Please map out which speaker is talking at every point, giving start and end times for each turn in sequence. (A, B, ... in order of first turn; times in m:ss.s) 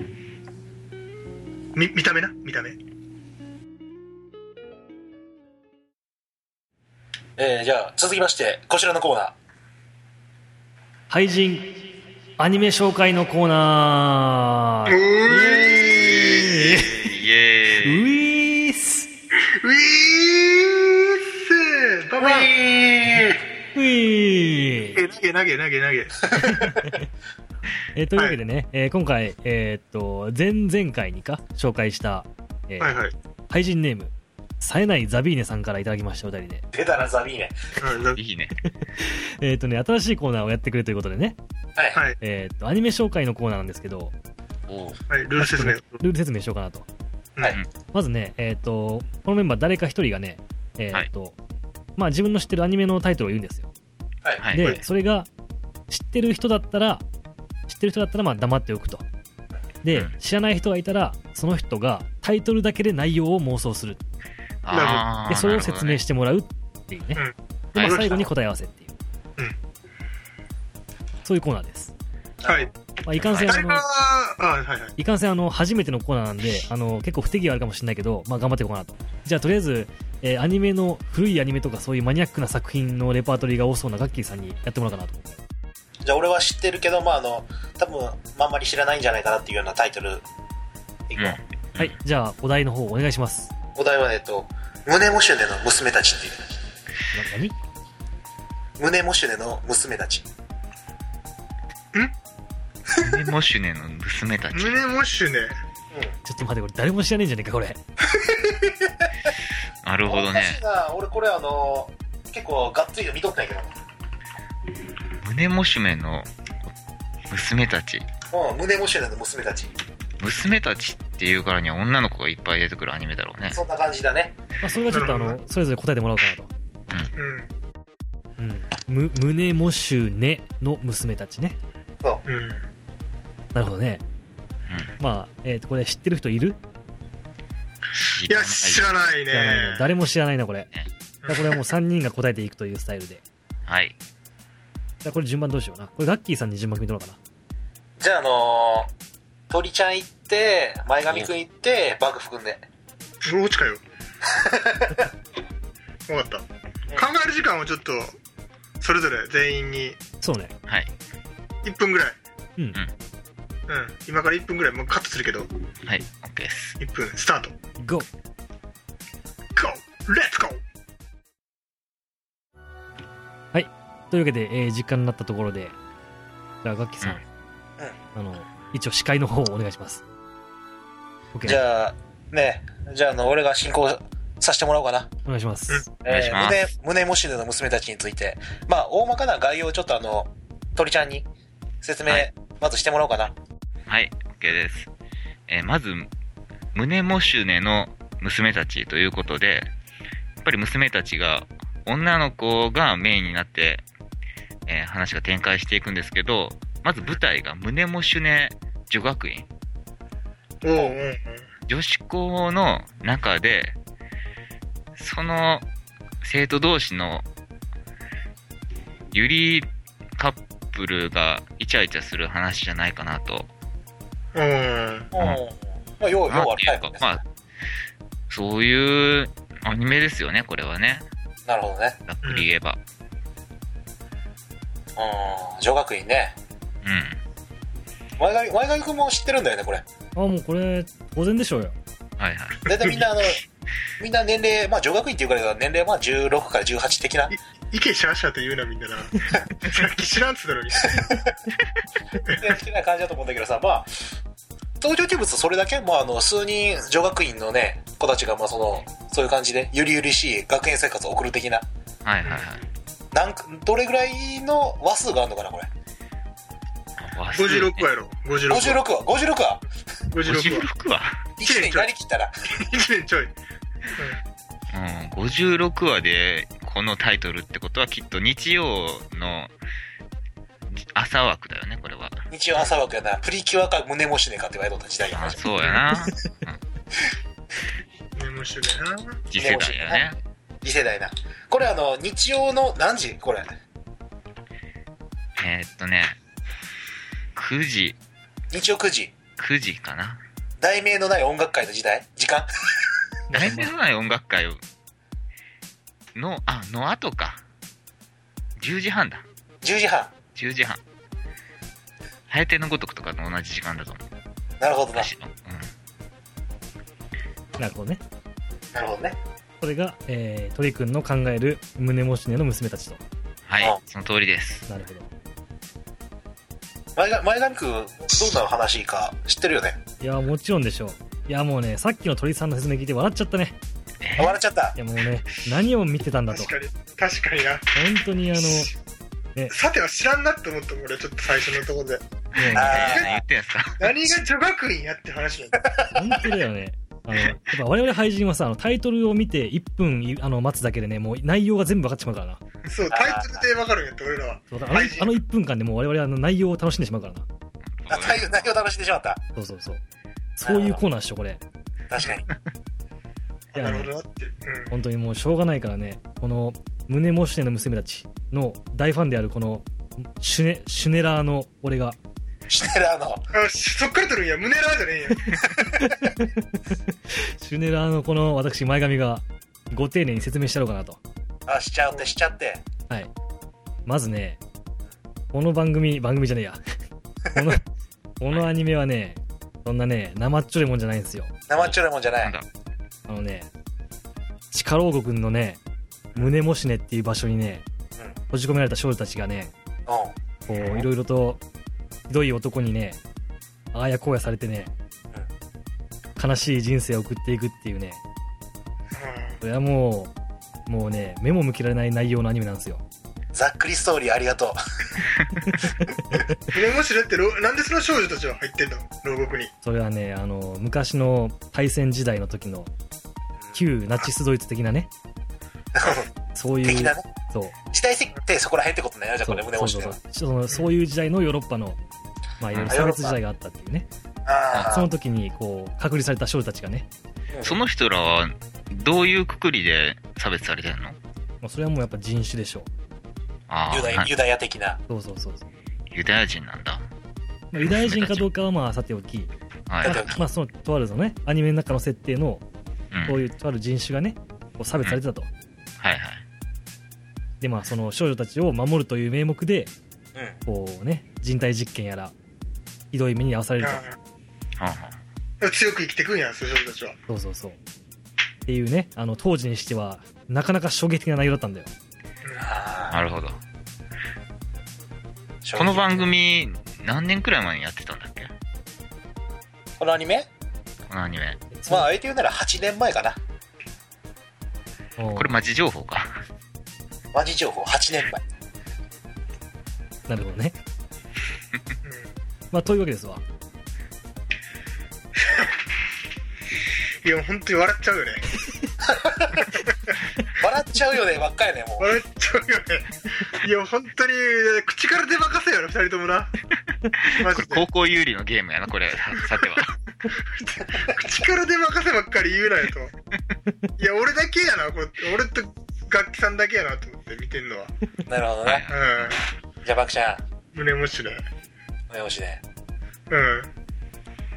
0:01.7-0:02.8 A
0:07.4-0:09.4 B
0:11.1-0:11.8 C
0:12.4-0:17.1 C
0:14.9-0:16.6 A
0:16.0-0:18.0 D
0:17.8-0:19.1 C
0:19.4-0:22.5 A
0:22.2-0:23.4 B
0:23.7-0:25.0 C
0:24.9-0:26.9 A
0:26.4-0:27.0 C
0:27.9-0:32.9 C
0:32.8-0:33.1 A
0:33.5-0:36.6 C
0:36.7-0:37.6 B
0:37.8-0:38.2 A
0:37.9-0:38.6 D
0:39.0-0:41.4 C
0:41.8-0:42.0 B
0:42.2-0:44.1 C
0:44.7-0:45.0 D
0:45.1-0:46.0 A
0:45.4-0:46.9 C
0:47.9-0:51.4 C
0:52.0-0:53.7 C
0:54.4-0:54.8 D
0:54.5-0:55.3 C
0:55.9-0:57.0 C
0:57.7-0:59.0 C
0:59.8-1:04.0 C
1:04.6-1:06.0 D
1:04.7-1:05.0 A
1:05.3-1:07.2 C
1:07.1-1:08.3 A
1:07.7-1:08.9 C
1:07.8-1:08.1 D
1:11.2-1:11.9 C
1:12.4-1:12.7 B
1:13.0-1:13.8 C
1:13.2-1:13.5 D
1:13.3-1:14.9 A
1:15.0-1:25.4 C
1:26.0-1:30.2 B
1:31.1-1:31.4 B
1:31.2-1:31.9 D
1:31.8-1:33.5 C
1:33.7-1:36.6 B
1:37.1-1:37.6 C
1:38.8-1:40.2 B
1:42.9-1:44.8 D
1:44.5-1:45.6 A
1:46.2-1:47.8 C
1:48.1-1:49.1 B
1:49.8-1:50.6 D
1:50.0-1:53.8 B
1:55.2-1:56.3 D
1:57.3-1:58.1 D
1:58.3-1:59.7 B
2:00.2-2:03.6 D
2:03.5-2:04.3 B
2:04.6-2:06.5 C
2:04.9-2:05.4 A
2:07.2-2:07.5 A
2:08.4-2:11.6 C
2:12.3-2:12.6 A
2:13.5-2:14.0 C
2:14.7-2:14.9 D
2:15.0-2:16.6 C
2:18.0-2:18.9 D
2:18.3-2:19.9 A
2:19.3-2:20.7 C
2:21.2-2:21.6 A
2:21.3-2:23.2 C
2:23.6-2:23.9 D
2:25.0-2:27.2 C
2:28.0-2:28.9 B
2:29.5-2:32.6 B
2:33.2-2:33.8 A
2:34.2-2:35.1 B
2:36.1-2:38.2 A
2:38.8-2:40.0 A
2:40.2-2:40.5 C
2:41.6-2:42.2 A
2:43.7-2:45.5 A
2:45.8-2:46.8 D
2:46.8-2:47.5 A
2:47.8-2:48.1 C
2:49.5-2:50.6 A
2:53.5-2:55.7 C
2:56.6-2:57.2 C
2:58.1-3:00.0 C
3:01.3-3:01.6 C
3:01.4-3:05.1 B
3:05.2-3:05.8 C
3:06.0-3:11.3 B
3:06.0-3:06.7 D
3:11.8-3:13.3 B
3:13.9-3:14.9 D
3:15.5-3:16.1 D
3:16.7-3:19.7 D
3:20.4-3:23.8 D
3:24.7-3:29.5 D
3:30.6-3:31.4 A
3:31.7-3:33.8 D
3:35.0-3:35.6 D
3:36.2-3:37.2 D
3:39.1-3:43.5 D
3:44.3-3:45.1 A
3:45.1-3:47.2 B
3:46.3-3:47.2 D
3:48.3-3:51.0 D
3:51.5-3:52.0 B
3:52.1-3:52.8 D
3:55.0-3:56.4 B
3:56.8-3:57.2 D
3:58.2-3:59.8 B
4:00.2-4:01.8 C
4:02.2-4:02.9 D
4:02.6-4:03.4 B
4:04.0-4:07.3 B
4:07.3-4:11.2 A
4:10.9-4:11.3 B
4:12.3-4:13.9 B
4:14.8-4:21.7 B
4:22.0-4:22.6 D
4:23.1-4:25.7 B
4:27.0-4:27.9 D
4:27.3-4:28.8 A
4:28.5-4:29.6 B
4:30.1-4:30.7 A
4:30.2-4:31.3 D
4:31.4-4:32.3 B
4:31.4-4:31.9 A
4:32.5-4:33.3 A
4:33.9-4:34.2 A
4:34.7-4:39.5 D
4:40.7-4:42.2 D
4:42.3-4:46.0 B
4:45.1-4:46.6 D
4:48.2-4:49.2 A
4:49.3-4:50.2 D
4:49.4-4:50.1 B
4:50.6-4:53.5 B
4:55.4-4:56.2 D
4:57.3-4:58.0 D
4:58.5-4:59.1 B
4:59.4-5:00.2 D
5:00.6-5:02.5 B
5:03.3-5:03.7 C
5:03.3-5:04.6 D
5:06.1-5:07.4 D
5:08.6-5:09.2 D
5:09.6-5:10.1 B
5:10.3-5:10.8 D
5:12.3-5:14.0 D
5:14.6-5:15.1 B
5:14.9-5:15.7 D
5:17.6-5:18.0 C
5:18.7-5:19.2 B
5:19.6-5:23.0 C
5:23.5-5:24.7 D
5:24.7-5:25.1 C
5:27.0-5:29.8 B
5:30.0-5:33.5 C
5:34.0-5:34.4 D
5:34.2-5:34.8 B
5:34.8-5:36.5 C
5:36.3-5:37.8 A
5:37.7-5:38.7 C
5:38.3-5:38.6 A
5:39.5-5:42.0 A
5:42.4-5:42.9 C
5:42.4-5:43.9 D
5:42.5-5:43.2 B
5:42.7-5:43.2 A
5:43.8-5:45.7 A
5:45.7-5:46.1 B
5:45.9-5:52.4 C
5:52.7-5:55.2 A
5:52.9-5:53.4 B
5:54.5-5:57.2 C
5:57.7-5:58.5 D
5:57.9-5:59.2 B
5:59.4-5:59.8 C
6:00.4-6:01.4 C
6:00.4-6:00.8 B
6:01.9-6:02.2 B
6:03.5-6:04.7 A
6:03.5-6:03.9 C
6:04.7-6:12.0 C
6:12.5-6:13.3 B
6:13.3-6:15.6 A
6:15.6-6:21.0 C
6:21.5-6:22.6 B
6:23.8-6:24.4 C
6:25.3-6:26.6 C
6:27.3-6:27.6 C
6:28.2-6:31.3 C
6:31.5-6:32.3 B
6:31.6-6:32.5 D
6:33.1-6:33.5 C
6:34.5-6:35.6 C
6:36.1-6:37.6 C
6:38.3-6:39.5 C
6:39.9-6:40.9 B
6:40.5-6:41.4 C
6:42.1-6:43.0 C
6:43.7-6:44.7 C
6:46.2-6:48.0 C
6:48.9-6:49.4 A
6:49.4-6:50.1 C
6:50.7-6:52.8 C
6:53.3-6:55.0 B
6:55.4-6:56.3 C
6:56.5-6:59.5 A
6:59.6-7:02.7 C
7:03.5-7:04.9 C
7:05.7-7:06.1 B
7:06.3-7:07.5 C
7:06.6-7:07.0 B
7:07.7-7:10.0 B
7:09.2-7:11.8 C
7:12.4-7:13.9 C
7:12.5-7:12.8 D
7:12.7-7:13.2 B
7:14.2-7:14.9 B
7:14.5-7:16.8 C
7:17.3-7:17.6 B
7:17.4-7:21.0 D
7:21.4-7:22.7 C
7:23.5-7:24.1 D
7:23.7-7:24.8 B
7:24.9-7:25.5 C
7:25.9-7:26.8 D
7:27.5-7:29.3 C
7:27.6-7:28.3 D
7:29.7-7:30.2 D
7:29.8-7:30.2 B
7:29.8-7:32.4 C
7:32.9-7:33.2 D
7:33.1-7:35.3 C
7:35.8-7:36.2 D
7:37.4-7:39.7 C
7:40.4-7:42.1 C
7:42.9-7:43.8 C
7:43.6-7:44.0 A
7:44.6-7:45.0 D
7:45.4-7:47.0 A
7:47.1-7:47.6 C
7:48.4-7:51.7 C
7:52.4-7:53.0 B
7:52.9-7:53.4 D
7:55.4-7:56.1 B
7:55.6-7:58.3 D
7:59.8-8:00.3 B
8:00.9-8:01.4 D
8:01.5-8:01.9 C
8:01.7-8:03.2 B
8:05.0-8:05.3 C
8:05.2-8:06.2 D
8:07.1-8:08.2 B
8:10.1-8:10.6 C
8:11.8-8:12.1 A
8:12.5-8:13.2 C
8:17.0-8:18.4 A
8:18.8-8:19.4 B
8:19.4-8:20.0 A
8:20.3-8:21.9 B
8:21.8-8:26.3 A
8:26.9-8:29.8 D
8:27.1-8:27.6 A
8:30.1-8:32.9 A
8:33.8-8:37.7 A
8:38.0-8:38.6 B
8:38.4-8:39.2 D
8:38.7-8:39.2 A
8:39.6-8:40.2 B
8:40.5-8:41.2 A
8:41.9-8:42.4 B
8:43.1-8:43.5 A